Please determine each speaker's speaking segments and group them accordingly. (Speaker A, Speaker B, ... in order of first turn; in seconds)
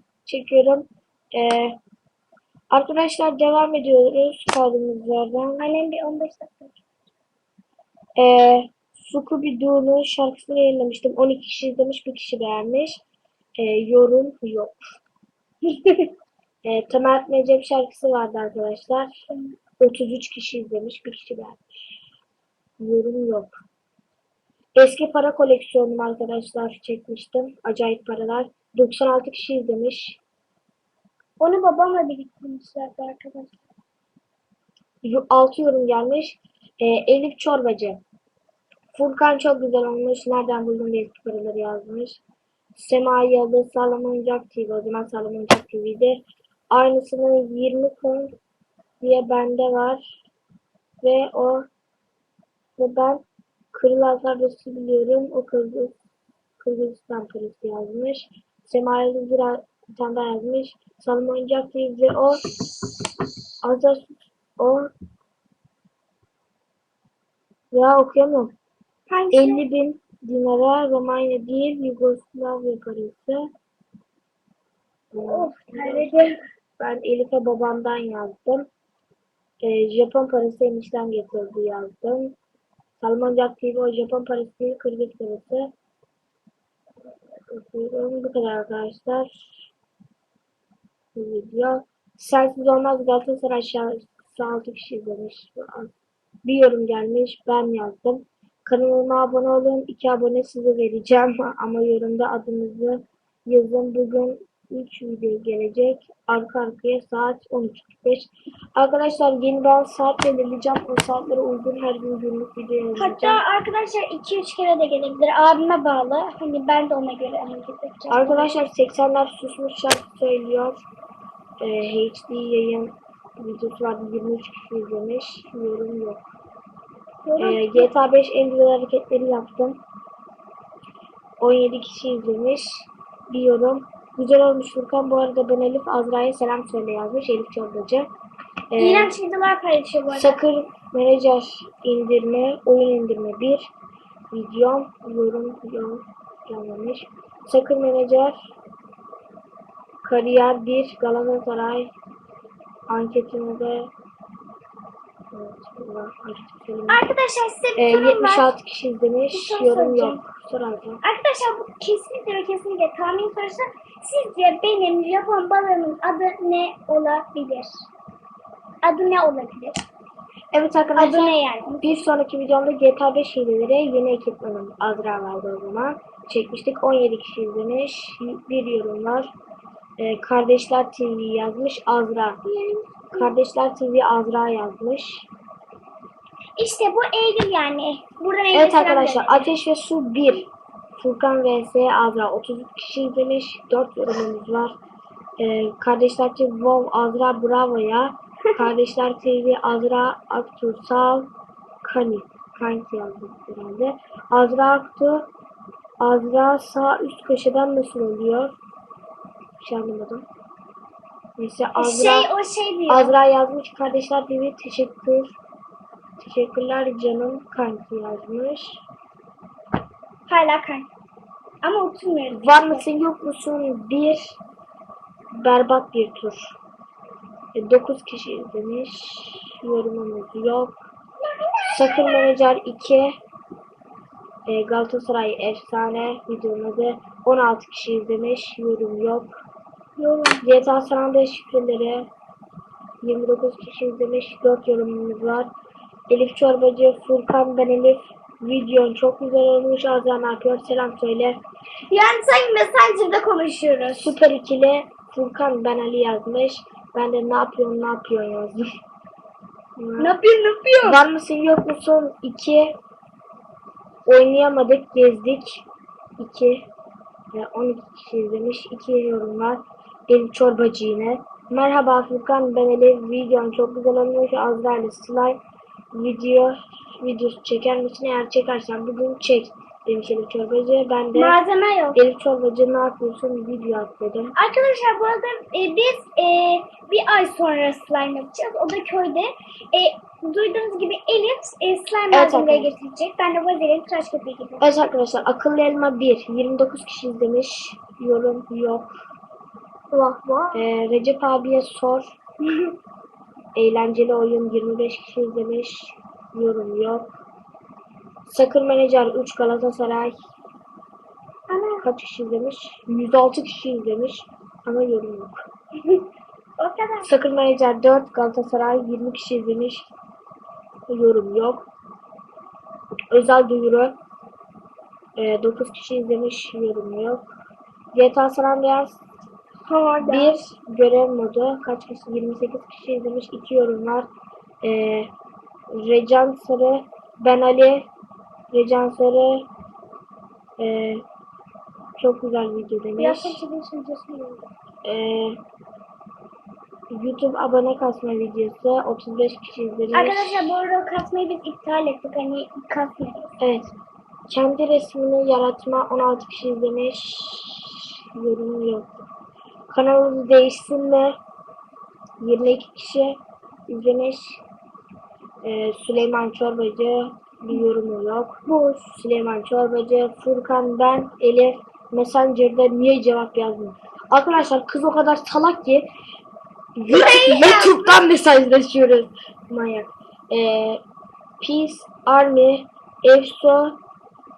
Speaker A: 0.3-1.8, 2.7-5.6, 8.2-13.0, 13.6-14.8, 16.6-19.2, 19.8-21.6, 22.8-23.6, 24.8-30.2, 35.0-38.0, 38.9-42.2, 42.8-48.4, 49.0-50.2, 51.0-51.7, 52.8-55.9, 56.6-62.4, 63.6-64.9, 67.7-68.5, 69.3-73.5, 75.1-76.1, 76.8-78.7, 79.6-82.4, 83.0-85.7, 87.5-89.5, 91.2-95.9, 96.4-113.4, 118.1-120.8, 121.6-126.3, 127.4-129.8, 131.4-138.1, 138.7-139.1, 140.1-143.7, 144.3-148.5, 150.0-151.9, 152.9-153.9, 155.3-157.0, 157.8-161.0, 170.5-179.3, 180.0-182.4, 183.1-185.3, 188.5-194.8, 195.4-201.3, 201.8-205.3, 206.0-208.6, 209.6-210.3, 211.4-212.3, 212.9-215.4, 216.2-218.8, 222.3-224.4, 225.3-226.6, 227.5-230.8, 231.7-233.2, 234.5-239.3, 240.4-242.1, 243.0-245.5, 246.1-251.4, 254.0-258.7, 259.8-260.1, 260.8-262.8, 264.1-265.7, 266.2-266.7, 267.3-275.4, 275.9-281.4, 281.9-284.3, 292.1-292.7, 294.6-298.9, 300.5-302.2, 303.6-307.2, 308.3-310.2, 311.8-315.5, 317.0-319.9, 320.9-321.7, 323.1-324.0, 325.2-327.3, 327.9-329.0, 330.0-334.1, 334.6-335.1, 335.7-337.9, 338.5-339.5, 340.6-341.0, 342.0-343.4, 344.9-345.4, 346.9-350.6, 353.4-353.7, 354.3-359.0, 359.7-361.2, 362.2-364.4, 365.4-375.9, 376.8-380.8, 381.4-383.8
Speaker B: 5.6-6.8, 15.6-16.1, 31.4-33.6, 69.1-69.6, 75.2-76.4, 113.0-118.5, 127.2-127.9, 138.8-140.4, 156.9-158.5, 159.3-160.2, 161.0-167.9, 168.8-169.8, 170.9-172.0, 182.4-183.3, 186.6-189.5, 211.8-213.2, 220.3-220.9, 221.6-222.8, 231.2-232.4, 240.0-240.5, 251.9-254.2, 260.0-261.0, 281.1-282.0, 284.4-294.6, 299.9-300.6, 302.4-302.7, 311.5-311.9, 316.6-317.1, 329.7-330.4, 343.0-344.5, 349.9-353.4, 368.5-368.9, 376.9-378.0